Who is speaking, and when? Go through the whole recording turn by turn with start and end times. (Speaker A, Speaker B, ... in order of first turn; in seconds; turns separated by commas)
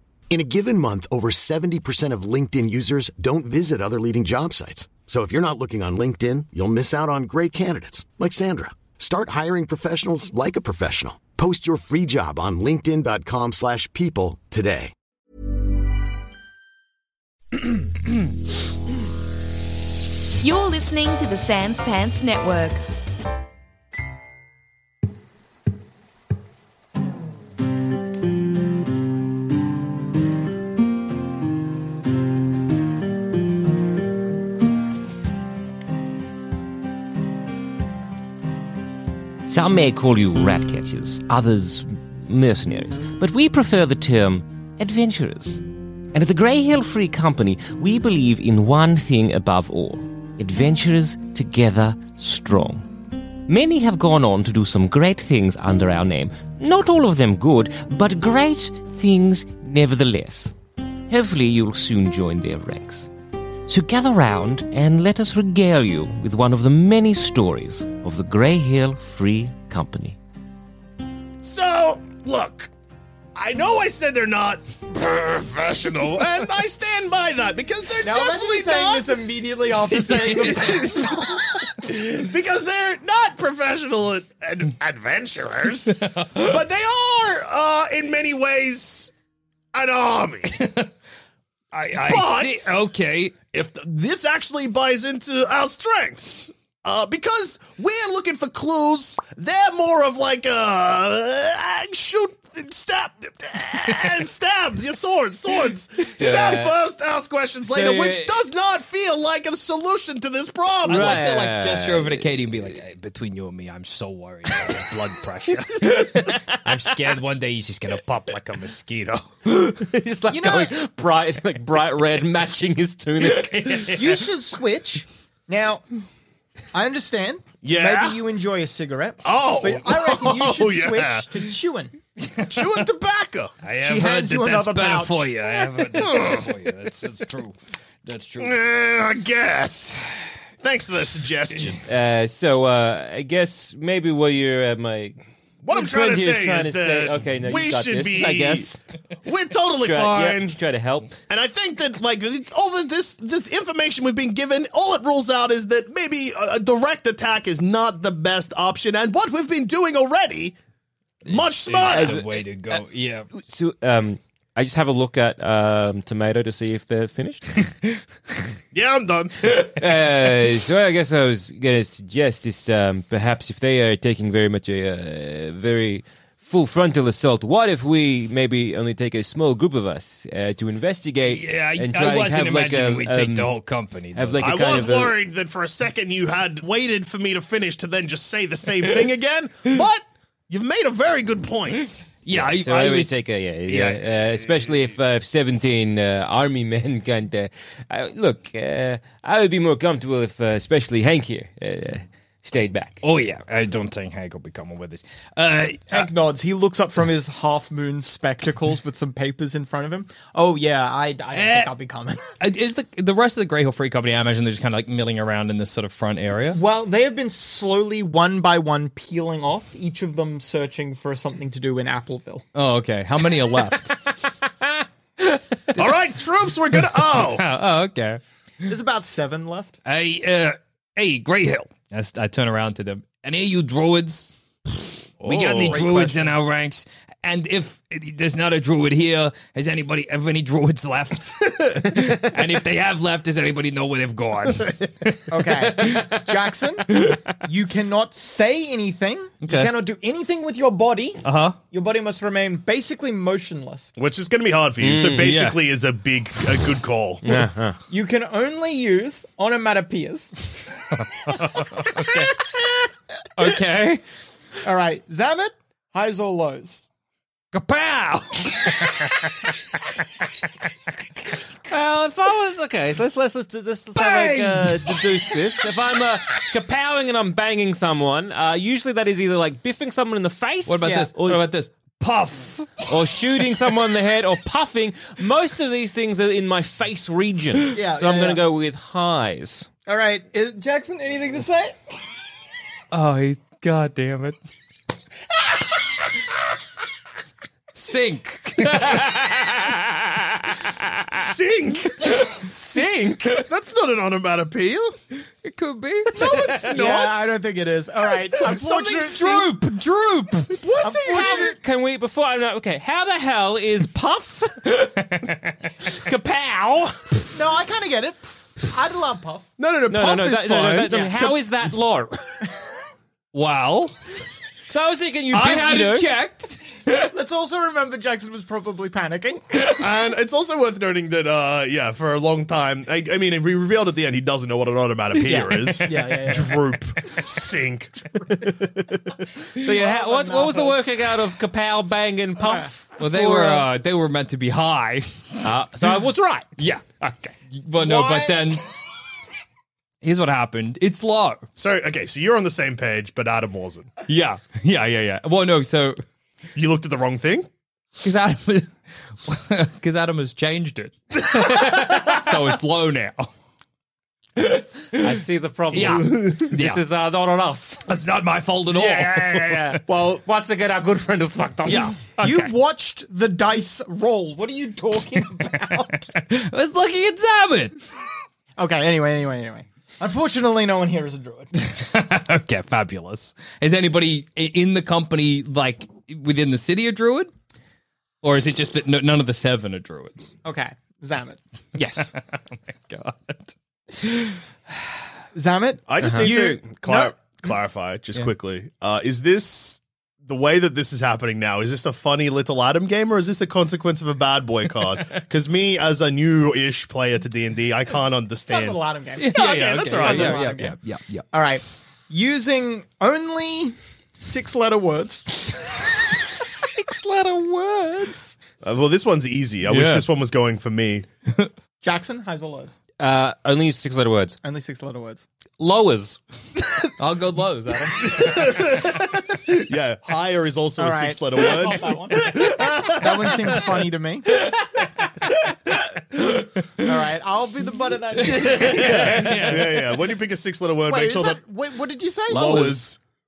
Speaker A: 0.3-14.9, Speaker B: 20.4-22.8, Speaker C: 39.5-52.9, Speaker C: 53.5-60.5, Speaker C: 61.1-63.1, Speaker C: 63.7-70.2, Speaker D: 71.4-72.7, Speaker D: 73.3-79.2, Speaker E: 78.0-81.5, Speaker F: 80.1-80.6, Speaker D: 81.6-89.1, Speaker F: 86.1-86.5, Speaker D: 89.7-90.5, Speaker F: 90.5-90.9, Speaker F: 91.7-93.4, Speaker D: 92.0-92.8, Speaker D: 93.5-111.2, Speaker C: 106.2-106.7, Speaker C: 107.7-108.3, Speaker C: 110.9-112.7, Speaker F: 110.9-119.3, Speaker C: 115.9-117.0, Speaker C: 119.5-124.2, Speaker E: 120.3-120.8, Speaker F: 123.2-124.0, Speaker E: 123.9-125.9, Speaker E: 126.7-132.0, Speaker D: 127.6-128.2, Speaker D: 129.2-131.3, Speaker F: 132.3-132.8, Speaker D: 132.5-133.6, Speaker F: 133.6-138.6, Speaker E: 133.8-135.3, Speaker D: 136.0-136.5, Speaker D: 138.4-140.0, Speaker D: 140.6-141.8, Speaker C: 141.8-148.8, Speaker D: 145.6-150.6, Speaker C: 149.8-151.1, Speaker D: 151.3-160.6, Speaker D: 161.2-162.2, Speaker F: 161.2-163.3, Speaker C: 161.8-162.8, Speaker C: 163.4-167.7, Speaker D: 168.7-169.3, Speaker C: 169.5-183.5, Speaker F: 181.3-184.6, Speaker C: 184.2-185.1, Speaker D: 184.4-191.9, Speaker F: 192.2-194.0, Speaker C: 192.3-203.0, Speaker F: 203.0-206.1, Speaker E: 205.9-212.3, Speaker F: 211.3-211.7, Speaker F: 212.4-216.6, Speaker E: 216.5-222.5, Speaker F: 222.6-224.1, Speaker F: 225.7-226.0, Speaker D: 225.8-227.5, Speaker F: 226.7-228.2, Speaker E: 228.7-229.8, Speaker F: 229.9-234.3, Speaker D: 235.2-236.2, Speaker F: 235.2-246.1, Speaker E: 235.7-236.1, Speaker E: 245.3-253.9, Speaker F: 249.4-249.7, Speaker F: 251.2-251.6, Speaker D: 254.0-257.4, Speaker C: 254.8-255.3, Speaker F: 255.1-255.6, Speaker C: 257.2-257.8, Speaker E: 257.9-260.6, Speaker F: 261.1-262.3, Speaker F: 263.4-264.0, Speaker E: 264.6-266.9, Speaker F: 267.5-269.5, Speaker C: 271.7-281.4, Speaker F: 274.0-275.6, Speaker F: 280.7-282.7, Speaker E: 280.8-281.1, Speaker C: 282.9-289.7, Speaker E: 287.7-288.4, Speaker E: 289.9-291.8, Speaker F: 292.9-294.4, Speaker F: 297.7-299.1, Speaker C: 298.6-301.1, Speaker D: 301.2-302.3, Speaker C: 302.3-303.3, Speaker D: 303.4-304.9, Speaker F: 305.4-306.2, Speaker D: 306.1-307.3, Speaker E: 306.7-309.6, Speaker D: 308.3-309.2, Speaker F: 309.1-310.5, Speaker D: 310.5-311.6, Speaker E: 310.8-311.6, Speaker C: 311.1-314.8, Speaker F: 314.7-315.6, Speaker C: 315.8-317.3, Speaker E: 317.3-319.5, Speaker D: 319.6-321.2, Speaker C: 319.9-322.5, Speaker E: 320.9-321.3, Speaker F: 323.3-324.0, Speaker C: 324.7-326.1, Speaker F: 325.3-327.1, Speaker E: 327.0-329.7, Speaker D: 329.8-338.9, Speaker E: 335.3-336.7, Speaker C: 339.6-343.7, Speaker E: 339.6-340.8, Speaker E: 342.4-342.7, Speaker F: 343.0-345.5, Speaker C: 345.4-347.3, Speaker F: 346.6-346.8, Speaker F: 347.5-348.6, Speaker E: 347.8-348.6, Speaker F: 350.0-351.5, Speaker D: 351.6-353.9, Speaker F: 354.1-356.0, Speaker D: 356.6-357.5, Speaker F: 358.0-363.3, Speaker C: 361.5-362.3, Speaker F: 364.4-365.1, Speaker C: 364.9-367.8, Speaker F: 365.7-366.8, Speaker F: 367.9-369.8, Speaker C: 368.7-372.5, Speaker F: 371.7-372.0, Speaker E: 372.2-376.1, Speaker F: 376.1-377.8, Speaker E: 378.6-381.5, Speaker F: 381.6-387.3, Speaker F: 388.2-390.4, Speaker E: 390.4-391.4, Speaker F: 391.8-394.4, Speaker E: 395.3-397.1, Speaker D: 395.9-410.5, Speaker C: 396.0-396.3, Speaker E: 408.5-410.8, Speaker F: 409.2-411.3, Speaker E: 411.3-415.9, Speaker C: 416.1-418.3, Speaker D: 418.6-421.1, Speaker F: 419.7-420.1, Speaker E: 421.8-422.7, Speaker C: 423.0-424.4, Speaker E: 424.4-425.2, Speaker C: 425.6-426.2, Speaker F: 427.0-428.9, Speaker D: 428.1-433.6, Speaker E: 430.8-434.5, Speaker F: 436.1-436.9, Speaker E: 436.8-439.6, Speaker F: 438.2-439.9, Speaker C: 438.3-439.4, Speaker D: 438.6-441.4, Speaker E: 440.9-442.8, Speaker D: 442.3-443.0, Speaker C: 442.3-442.8